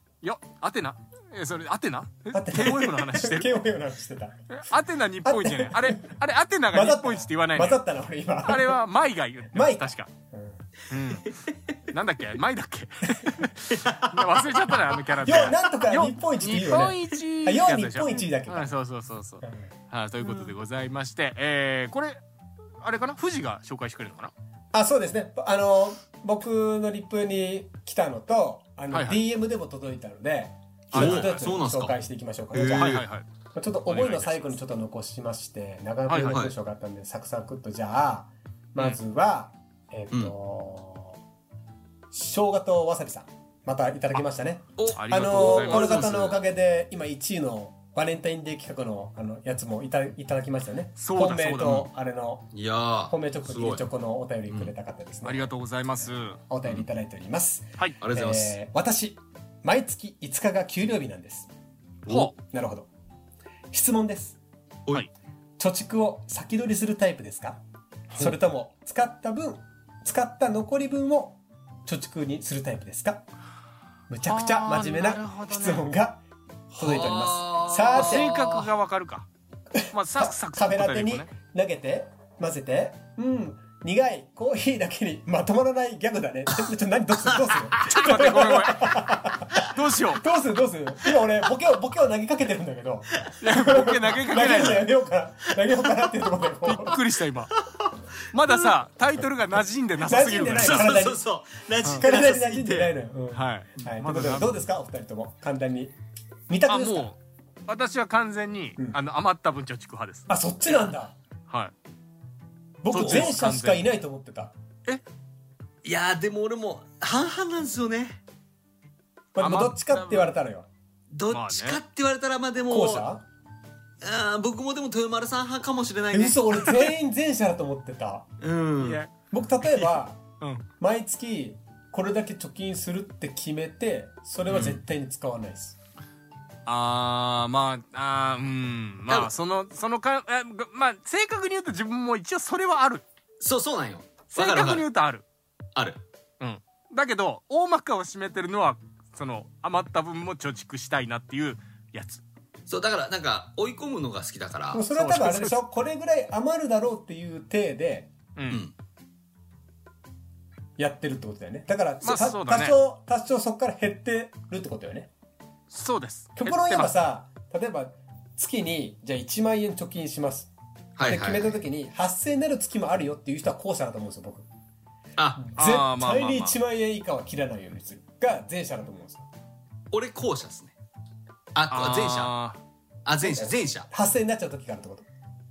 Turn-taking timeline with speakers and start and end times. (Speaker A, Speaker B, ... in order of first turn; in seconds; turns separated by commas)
Speaker A: 0.2-3.5, Speaker B: 2.3-4.4, Speaker A: 4.5-7.8, Speaker B: 5.2-6.1, Speaker B: 6.7-8.8, Speaker A: 8.4-10.1, Speaker B: 9.5-10.6, Speaker A: 10.9-11.3, Speaker A: 11.9-22.2, Speaker C: 13.7-15.0, Speaker B: 15.2-18.8, Speaker B: 19.4-19.7, Speaker A: 22.8-24.3, Speaker B: 24.7-33.0, Speaker A: 28.9-29.2, Speaker A: 30.9-31.5, Speaker C: 30.9-32.0, Speaker C: 32.5-33.0, Speaker A: 32.7-33.3, Speaker B: 33.5-41.2, Speaker A: 33.9-34.5, Speaker A: 36.1-36.5, Speaker C: 36.2-36.5, Speaker B: 42.1-52.5, Speaker C: 44.8-46.4, Speaker A: 44.9-46.1, Speaker A: 51.0-51.9, Speaker C: 52.5-53.9, Speaker B: 53.0-55.5, Speaker C: 54.5-54.7, Speaker A: 55.2-56.4, Speaker B: 56.1-61.5, Speaker C: 58.0-58.6, Speaker A: 62.1-62.3, Speaker B: 62.4-62.9, Speaker B: 63.7-64.4, Speaker B: 65.6-67.6, Speaker B: 68.2-73.2, Speaker B: 74.1-76.2, Speaker A: 74.2-75.9, Speaker B: 76.7-78.3, Speaker C: 76.8-78.7, Speaker A: 77.9-79.3, Speaker B: 79.8-97.0, Speaker A: 79.9-81.3, Speaker C: 87.4-88.2, Speaker A: 87.8-89.0, Speaker A: 89.7-90.2, Speaker A: 93.4-94.9, Speaker A: 96.6-97.5, Speaker C: 97.7-98.7, Speaker A: 98.3-101.0, Speaker B: 100.0-101.2, Speaker C: 100.5-102.9, Speaker A: 101.8-102.1, Speaker B: 101.9-105.9, Speaker A: 103.3-104.5, Speaker B: 106.5-107.1, Speaker A: 106.7-110.9, Speaker B: 110.3-111.1, Speaker B: 112.8-114.5, Speaker A: 112.9-113.8, Speaker C: 112.9-113.3, Speaker C: 115.8-118.2, Speaker B: 119.3-120.7, Speaker A: 119.4-120.3, Speaker C: 121.1-123.1, Speaker A: 121.3-121.8, Speaker B: 122.7-123.2, Speaker C: 124.0-126.4, Speaker B: 126.1-128.3, Speaker C: 128.4-129.0, Speaker A: 128.8-129.1, Speaker B: 129.3-130.2, Speaker A: 129.6-130.7, Speaker B: 130.8-135.8, Speaker C: 134.5-134.8, Speaker A: 136.7-143.0, Speaker C: 143.4-144.8, Speaker A: 144.3-145.2, Speaker C: 145.7-146.0, Speaker A: 146.4-152.2, Speaker C: 152.7-154.8, Speaker B: 154.7-158.1, Speaker A: 154.9-155.6, Speaker A: 158.3-158.6, Speaker B: 160.8-165.1, Speaker A: 162.0-162.8, Speaker A: 165.7-166.9, Speaker B: 166.3-170.5, Speaker C: 171.0-171.6, Speaker B: 171.0-174.5, Speaker C: 175.2-175.5, Speaker B: 175.4-179.3, Speaker A: 175.6-176.5, Speaker C: 179.9-180.7, Speaker C: 181.5-182.3, Speaker A: 181.7-182.6, Speaker C: 183.1-183.9, Speaker B: 183.2-185.1